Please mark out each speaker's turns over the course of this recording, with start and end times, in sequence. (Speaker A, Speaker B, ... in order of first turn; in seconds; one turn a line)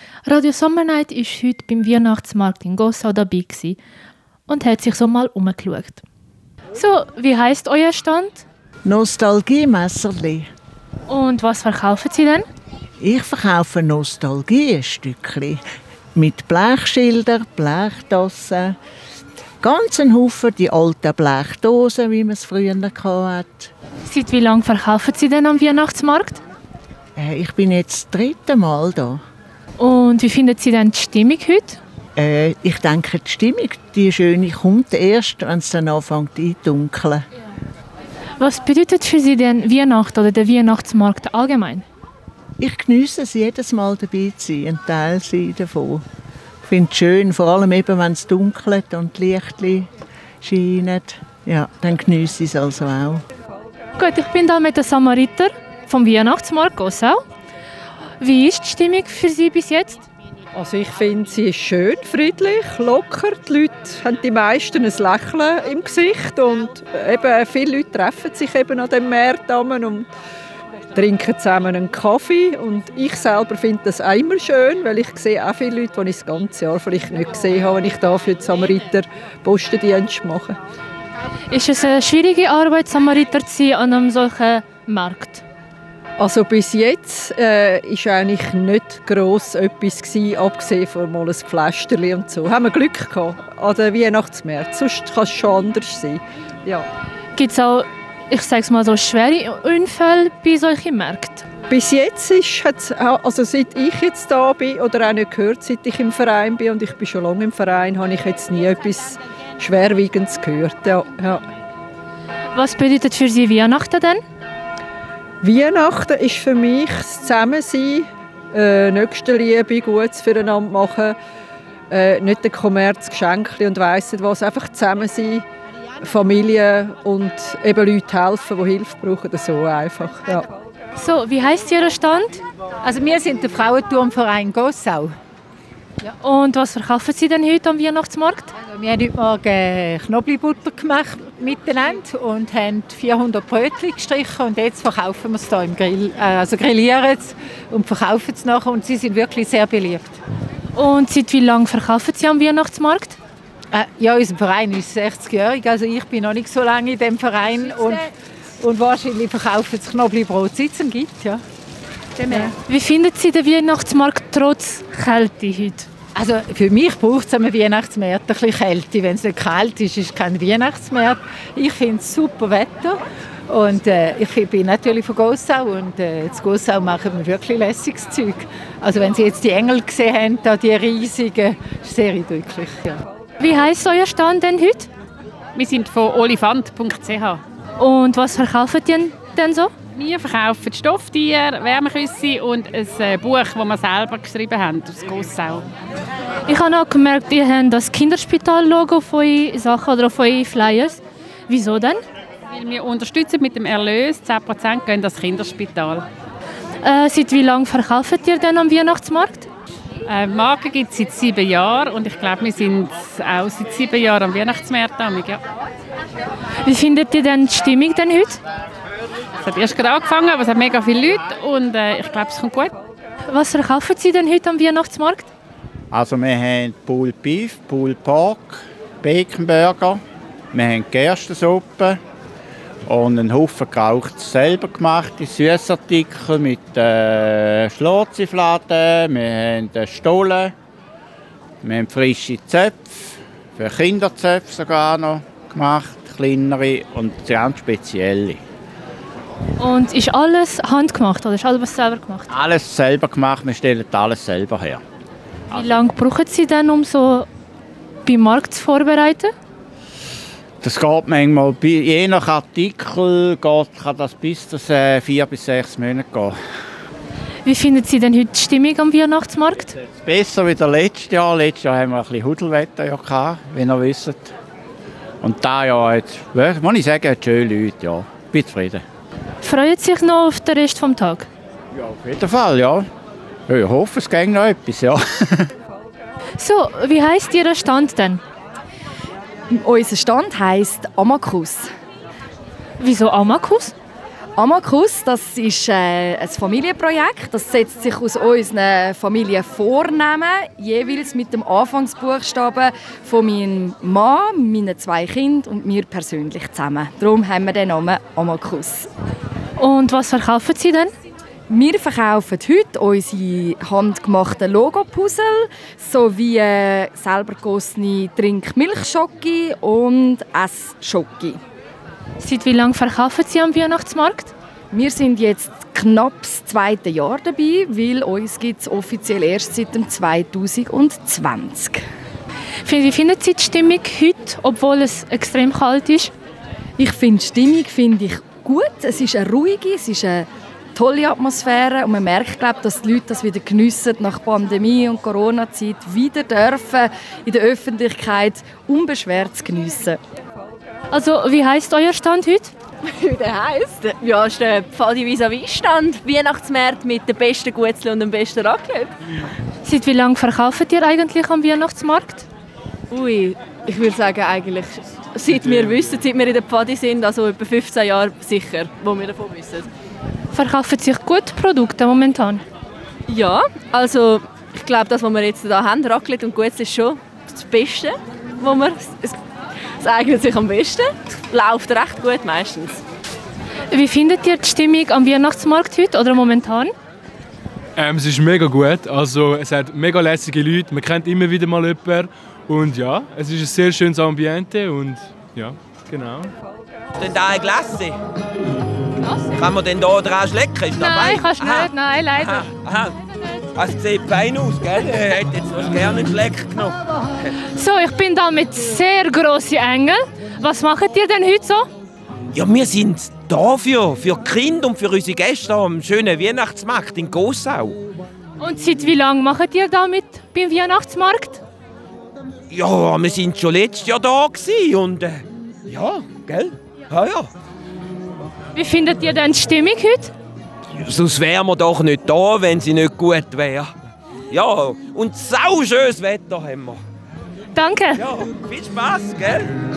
Speaker A: 0.2-3.8
Speaker A: 4.5-6.0
Speaker A: 6.7-8.4
Speaker B: 8.8-10.5
Speaker A: 11.1-12.4
Speaker B: 13.0-15.6
Speaker B: 16.1-18.8
Speaker B: 19.6-23.7
Speaker A: 24.0-26.4
Speaker B: 27.1-29.2
Speaker A: 29.8-31.8
Speaker B: 32.2-37.2
Speaker A: 38.4-41.9
Speaker B: 42.6-46.0
Speaker B: 46.6-49.9
Speaker B: 50.4-53.2
Speaker A: 54.0-57.2
Speaker A: 58.2-60.0
Speaker C: 60.5-70.1
Speaker C: 70.9-80.6
Speaker A: 81.5-85.4
Speaker C: 86.2-96.8
Speaker A: 97.3-101.5
Speaker C: 101.7-111.4
Speaker A: 112.5-114.2
Speaker C: 115.4-121.1
Speaker C: 121.9-125.4
Speaker C: 126.0-130.4
Speaker A: 130.9-132.4
Speaker D: 132.8-135.1
Speaker A: 136.1-138.5
Speaker D: 138.7-150.2
Speaker A: 150.7-153.2
Speaker D: 153.7-161.4
Speaker A: 162.3-165.9
Speaker D: 166.1-183.0
Speaker A: 183.4-184.9
Speaker E: 185.5-187.4
Speaker A: 187.8-189.7
Speaker E: 189.9-195.7
Speaker A: 196.5-202.0
Speaker E: 202.5-206.1
Speaker A: 206.8-209.5
Speaker E: 210.1-215.4
Speaker A: 216.6-218.4
Speaker E: 219.4-222.7
Speaker A: 223.3-225.3
Speaker F: 225.9-230.0
Speaker F: 230.5-232.0
Speaker F: 232.8-240.5
Speaker F: 241.6-248.4
Speaker A: 249.6-252.3
Speaker F: 252.3-254.8
Speaker A: 255.5-257.3
Speaker A: 258.0-259.3
Speaker F: 260.6-266.4
Speaker A: 267.4-269.8
Speaker F: 269.8-274.3
Speaker F: 275.2-278.8
Speaker A: 279.4-281.3
Speaker F: 281.7-282.9
Speaker F: 283.5-285.5
Speaker A: 286.4-288.2
Speaker G: 289.5-291.7
Speaker A: 292.8-293.7
Speaker G: 294.4-308.9
Speaker A: 309.6-310.9
Speaker G: 311.5-321.4
Speaker A: 322.2-324.3
Speaker G: 324.7-331.8
Speaker A: 332.6-336.1
Speaker G: 336.8-350.0
Speaker A: 350.9-352.5
Speaker H: 352.9-358.9
Speaker A: 359.6-362.3
Speaker H: 362.9-369.6
Speaker A: 370.3-372.4
Speaker H: 373.1-379.2
Speaker H: 379.8-382.8
Speaker A: 383.7-386.7
Speaker I: 387.8-396.3
Speaker J: 396.9-398.0
Speaker J: 399.3-402.9
Speaker A: 400.8-402.4
Speaker J: 403.6-406.8
Speaker A: 407.6-411.7
Speaker J: 412.3-417.8
Speaker A: 418.4-421.4
Speaker J: 422.5-427.3
Speaker A: 428.5-430.1
Speaker J: 430.8-433.7
Speaker J: 434.3-436.8
Speaker A: 437.5-438.0
Speaker J: 437.9-439.5